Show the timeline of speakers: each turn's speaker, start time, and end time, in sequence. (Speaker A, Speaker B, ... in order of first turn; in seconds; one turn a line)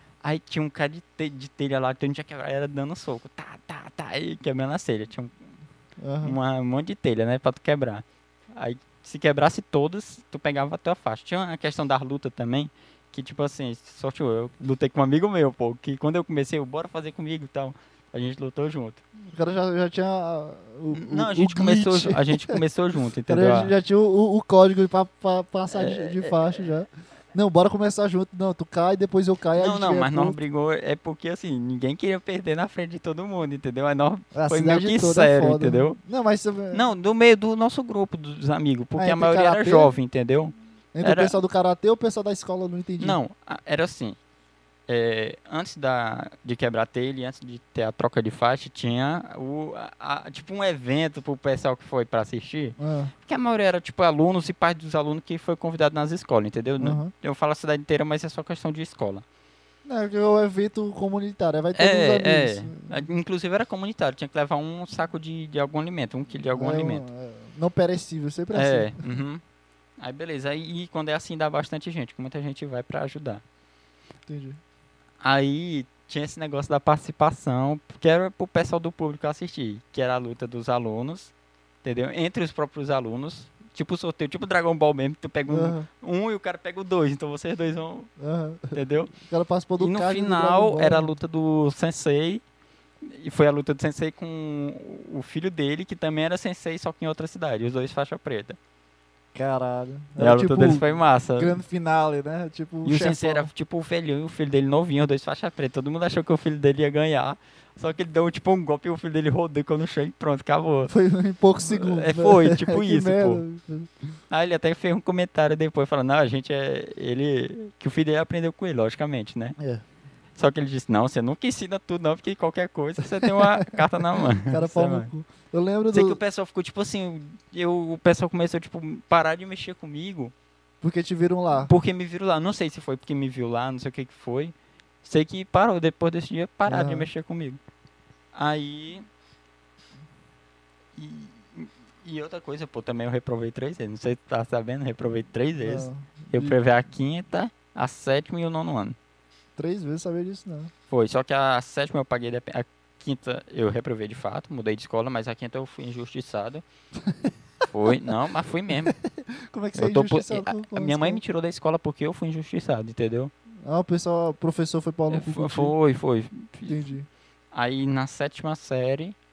Speaker A: 0.2-5.4
Speaker B: 6.0-6.3
Speaker A: 6.2-19.0
Speaker B: 19.3-22.6
Speaker A: 20.9-23.7
Speaker B: 23.3-30.4
Speaker A: 25.7-26.6
Speaker A: 29.6-36.0
Speaker B: 34.3-36.8
Speaker A: 36.7-41.4
Speaker B: 39.0-39.9
Speaker B: 40.9-43.2
Speaker A: 43.0-44.2
Speaker A: 44.9-59.2
Speaker B: 52.8-53.1
Speaker B: 56.8-57.1
Speaker B: 59.8-63.0
Speaker A: 61.7-67.0
Speaker B: 66.5-69.0
Speaker A: 68.5-69.4
Speaker A: 70.0-73.4
Speaker B: 74.3-74.6
Speaker A: 75.2-81.3
Speaker A: 81.8-88.1
Speaker B: 85.5-85.9
Speaker B: 88.2-91.1
Speaker A: 88.7-89.1
Speaker A: 89.8-92.4
Speaker A: 93.0-98.6
Speaker B: 99.3-103.5
Speaker A: 100.2-101.6
Speaker A: 102.8-110.9
Speaker B: 110.9-113.9
Speaker A: 111.6-113.4
Speaker A: 114.3-119.5
Speaker B: 119.6-119.8
Speaker A: 120.3-125.1
Speaker B: 123.2-123.7
Speaker B: 124.4-126.2
Speaker A: 125.9-130.3
Speaker B: 130.8-131.7
Speaker A: 131.6-137.6
Speaker B: 136.7-137.1
Speaker A: 138.3-139.1
Speaker A: 140.9-149.0
Speaker B: 145.6-146.6
Speaker B: 149.6-150.7
Speaker A: 150.9-156.6
Speaker A: 157.7-158.9
Speaker B: 159.1-161.2
Speaker A: 159.7-163.3
Speaker B: 163.6-165.7
Speaker A: 165.1-166.8
Speaker B: 166.7-167.1
Speaker A: 167.5-169.2